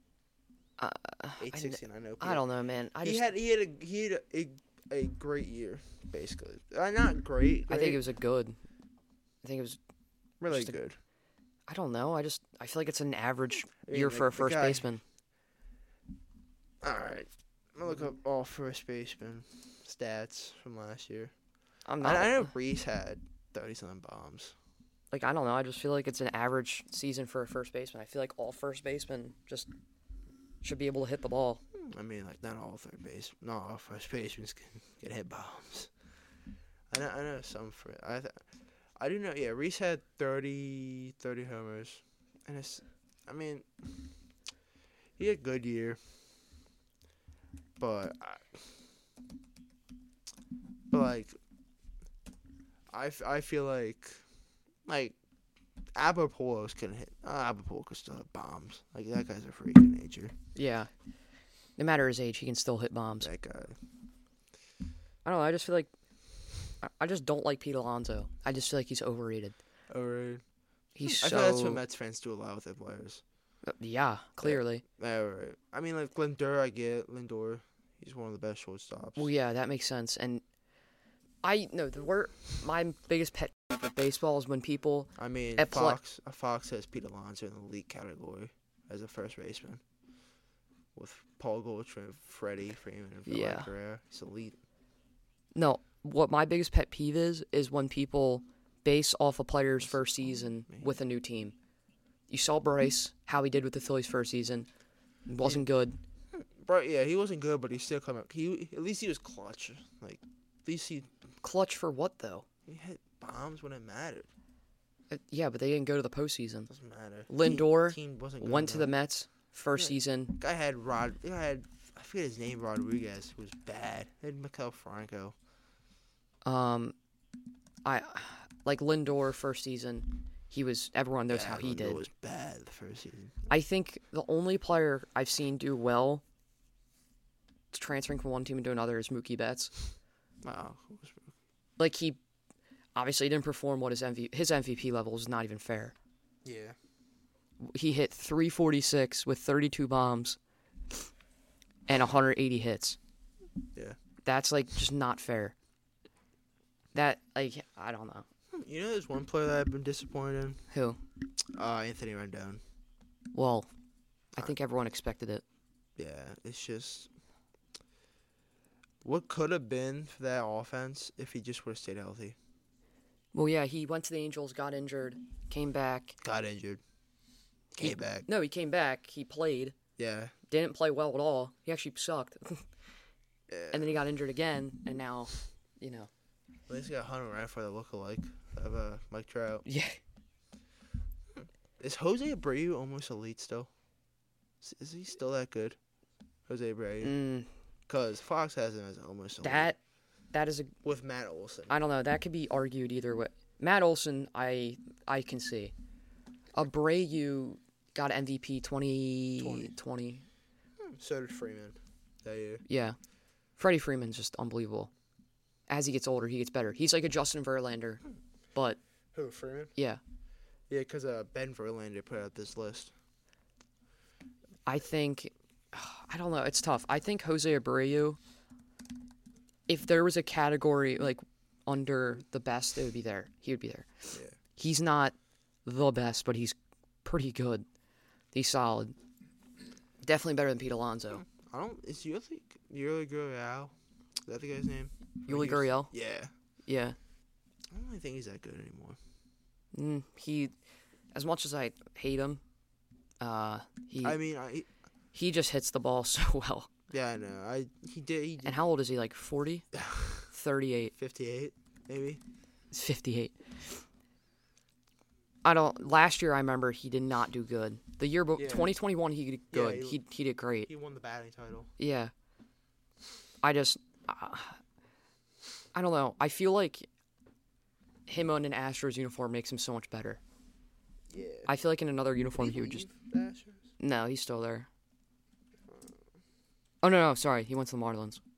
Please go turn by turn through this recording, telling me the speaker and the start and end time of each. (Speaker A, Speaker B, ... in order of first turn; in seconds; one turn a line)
Speaker A: 0.8-3.2
Speaker B: 1.4-2.4
Speaker B: 3.0-8.0
Speaker A: 7.7-8.6
Speaker A: 9.4-9.8
Speaker B: 10.4-11.0
Speaker A: 10.5-10.8
Speaker A: 11.7-15.0
Speaker B: 13.9-14.9
Speaker B: 16.8-21.3
Speaker A: 21.9-22.5
Speaker B: 22.0-24.6
Speaker A: 25.1-29.7
Speaker A: 30.6-31.6
Speaker B: 31.7-35.9
Speaker B: 36.9-38.4
Speaker B: 39.0-43.7
Speaker B: 45.2-46.0
Speaker B: 47.8-48.8
Speaker B: 50.9-51.4
Speaker B: 52.9-54.2
Speaker B: 54.9-55.2
Speaker B: 56.0-60.3
Speaker A: 60.5-60.9
Speaker A: 61.8-63.3
Speaker B: 63.2-63.8
Speaker A: 65.2-65.9
Speaker A: 66.8-69.6
Speaker B: 69.9-70.4
Speaker A: 71.0-71.8
Speaker B: 71.0-73.2
Speaker A: 73.7-74.8
Speaker B: 74.4-79.3
Speaker A: 79.2-80.4
Speaker A: 81.4-86.0
Speaker B: 85.2-89.8
Speaker B: 91.0-94.6
Speaker A: 93.3-93.7
Speaker A: 95.5-101.5
Speaker B: 99.8-100.1
Speaker B: 100.7-101.0
Speaker A: 102.3-104.7
Speaker A: 105.3-106.0
Speaker B: 106.3-111.1
Speaker A: 111.4-112.5
Speaker B: 112.7-114.3
Speaker A: 115.1-116.7
Speaker B: 116.7-118.9
Speaker A: 117.3-120.4
Speaker B: 119.8-125.3
Speaker A: 126.5-127.0
Speaker A: 127.8-132.0
Speaker B: 131.3-133.4
Speaker A: 133.5-136.2
Speaker A: 137.7-139.7
Speaker B: 140.4-141.3
Speaker A: 141.8-142.2
Speaker A: 142.9-145.9
Speaker B: 146.4-146.8
Speaker A: 147.6-150.4
Speaker A: 151.9-153.0
Speaker A: 154.2-155.5
Speaker A: 156.9-158.2
Speaker B: 158.5-160.6
Speaker A: 160.7-161.0
Speaker B: 161.5-162.6
Speaker A: 163.3-163.7
Speaker A: 164.4-165.4
Speaker B: 166.0-167.1
Speaker B: 169.0-172.4
Speaker A: 173.3-176.2
Speaker B: 176.2-176.8
Speaker B: 177.8-178.2
Speaker A: 177.8-179.8
Speaker B: 180.0-180.3
Speaker A: 180.5-182.7
Speaker B: 183.5-184.0
Speaker A: 183.7-186.1
Speaker B: 186.7-189.6
Speaker A: 189.7-190.0
Speaker B: 191.8-193.7
Speaker B: 194.6-195.8
Speaker B: 196.5-197.2
Speaker A: 197.0-197.5
Speaker B: 197.9-199.7
Speaker A: 199.4-199.8
Speaker A: 200.3-200.7
Speaker B: 200.8-201.8
Speaker A: 201.7-205.7
Speaker A: 206.5-210.2
Speaker B: 209.4-209.8
Speaker B: 210.8-212.6
Speaker A: 212.7-213.0
Speaker A: 213.6-214.9
Speaker A: 215.7-218.0
Speaker B: 219.1-219.7
Speaker B: 220.7-222.9
Speaker A: 224.7-228.2
Speaker A: 229.7-235.1
Speaker A: 235.7-237.6
Speaker A: 238.3-239.0
Speaker A: 240.0-241.2
Speaker B: 241.1-243.7
Speaker B: 244.2-246.3
Speaker A: 245.3-245.9
Speaker A: 246.7-247.0
Speaker B: 247.7-249.0
Speaker A: 249.7-250.5
Speaker A: 251.1-252.4
Speaker A: 253.2-254.2
Speaker B: 254.0-254.7
Speaker A: 255.1-256.7
Speaker B: 256.9-258.6
Speaker A: 258.4-259.6
Speaker B: 259.7-260.3
Speaker A: 260.3-260.9
Speaker B: 261.0-262.2
Speaker A: 262.7-263.8
Speaker A: 265.4-270.7
Speaker B: 268.4-268.8
Speaker B: 269.5-270.0
Speaker B: 270.7-271.7
Speaker A: 271.8-272.1
Speaker A: 273.4-274.6
Speaker A: 275.7-276.9
Speaker A: 278.1-280.2
Speaker B: 281.1-281.5
Speaker A: 281.5-282.9
Speaker B: 282.4-283.7
Speaker A: 283.8-284.7
Speaker B: 285.6-286.0
Speaker A: 286.8-288.2